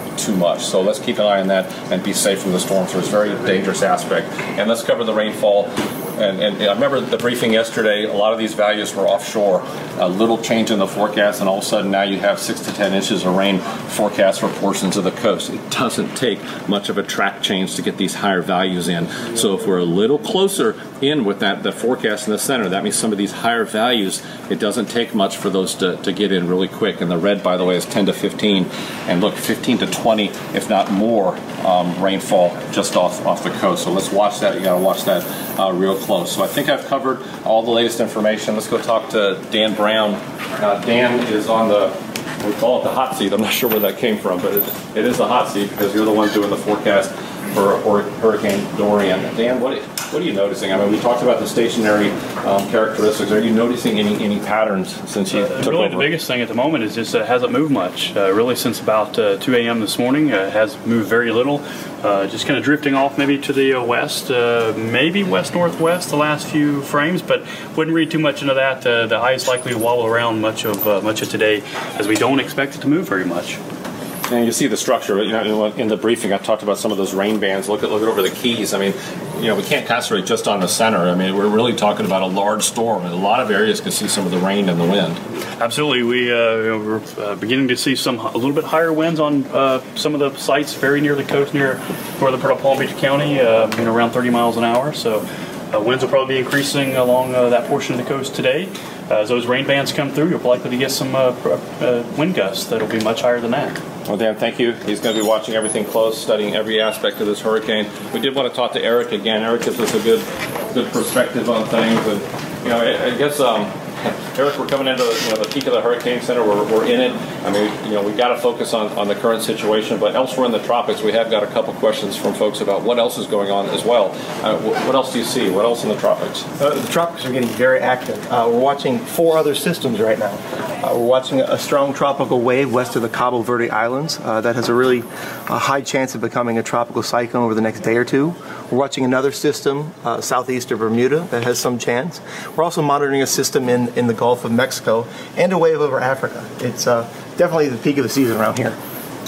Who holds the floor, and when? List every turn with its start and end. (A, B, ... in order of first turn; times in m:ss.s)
0:00.2-0:56.1 A
0:55.3-1:13.6 B
1:14.3-1:25.2 A
1:25.6-1:43.8 B
1:44.1-2:06.5 A
2:06.6-2:28.8 C